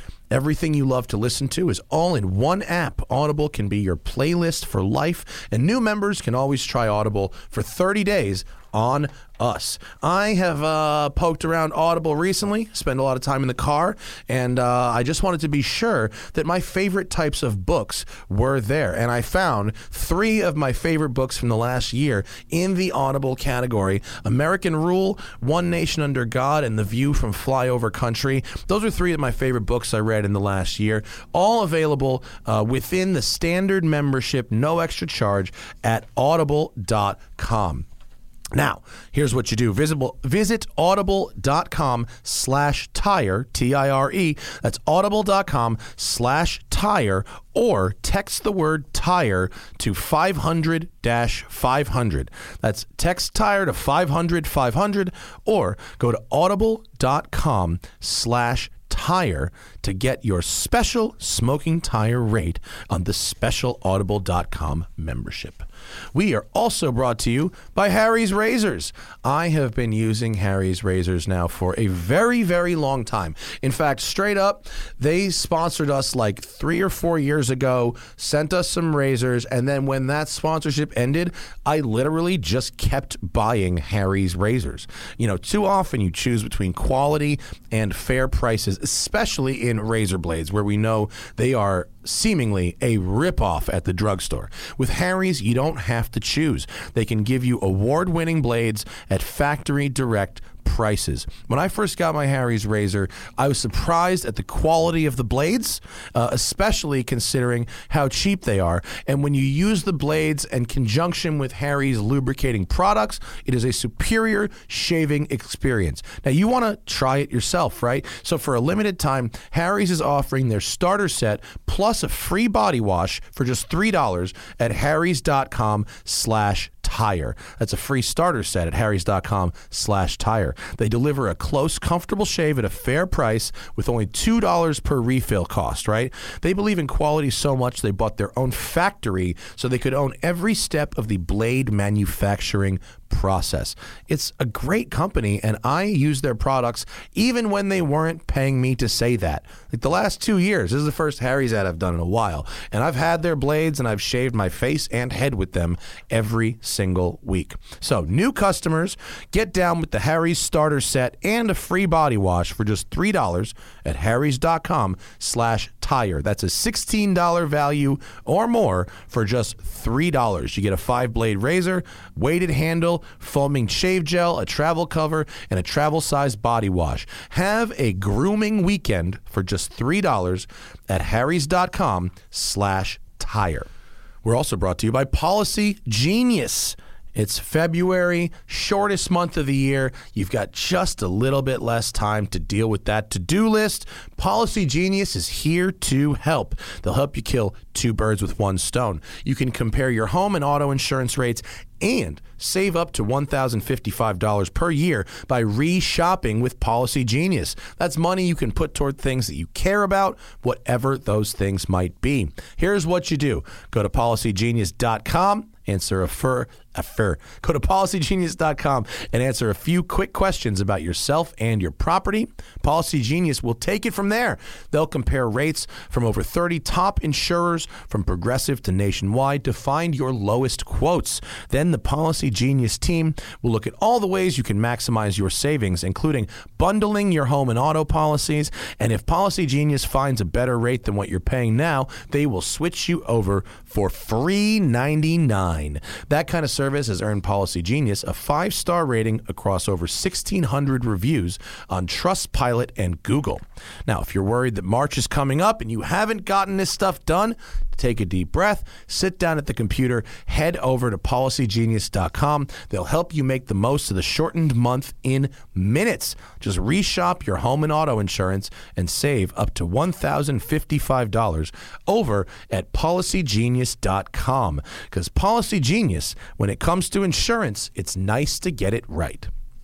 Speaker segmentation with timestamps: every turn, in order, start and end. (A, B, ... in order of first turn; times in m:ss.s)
0:00.3-0:37.9 A
0:38.5-3:03.7 A
3:04.2-4:39.3 A